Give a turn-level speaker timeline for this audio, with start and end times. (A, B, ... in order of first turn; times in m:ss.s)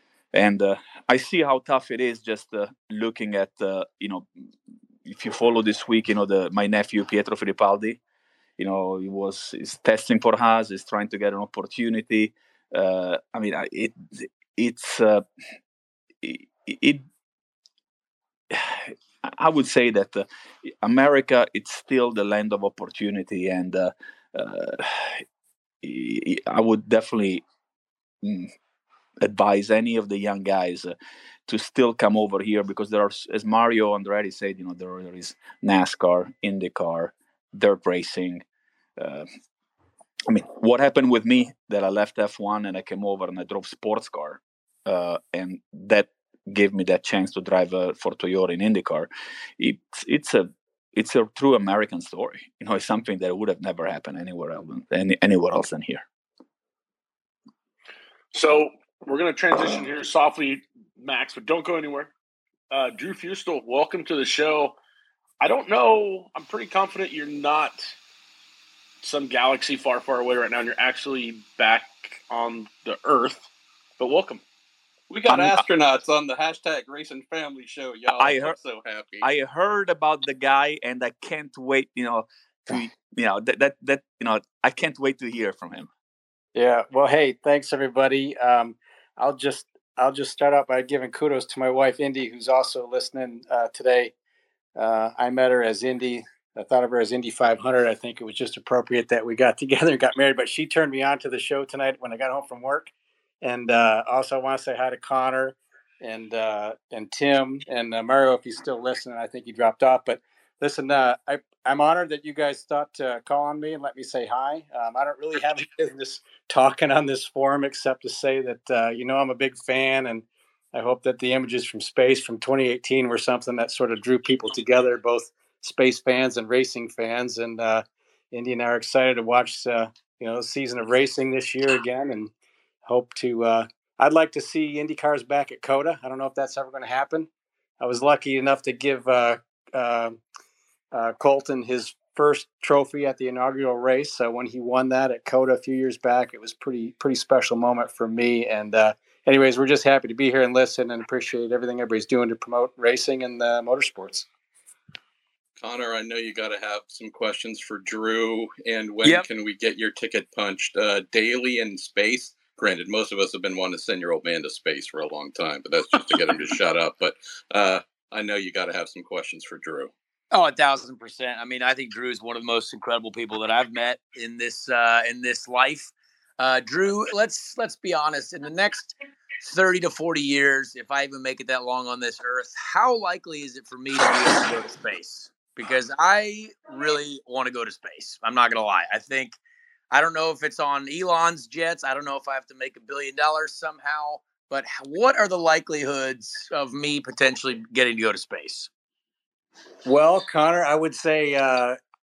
0:00.3-0:04.3 A
0:05.0-0:08.0 A
0:08.6-0:15.2 A
0:16.2-0:17.0 A
0:18.5-0:20.2 A
0:20.8-0:25.2 A
0:25.8-0:27.4 A
0:28.2-0:28.5 A
0:29.2-0:30.9 A
0:31.5-0:38.4 A
0:39.0-0:39.3 A
0:40.3-0:56.0 A
0:58.3-1:02.1 B
1:02.7-1:04.8 B
1:05.4-1:07.9 B
1:09.0-1:14.4 B
1:15.1-1:19.3 C
1:15.3-1:15.6 A
1:18.1-1:18.6 A
1:19.2-1:25.9 A
1:26.5-1:34.1 D
1:34.8-1:42.9 D
1:43.4-2:12.3 D
2:12.8-2:17.3 D
2:17.8-2:20.2 D
2:20.9-2:34.2 D
2:35.6-2:49.9 C
2:50.3-3:09.4 E
3:09.9-3:18.7 E
3:19.8-3:21.8 D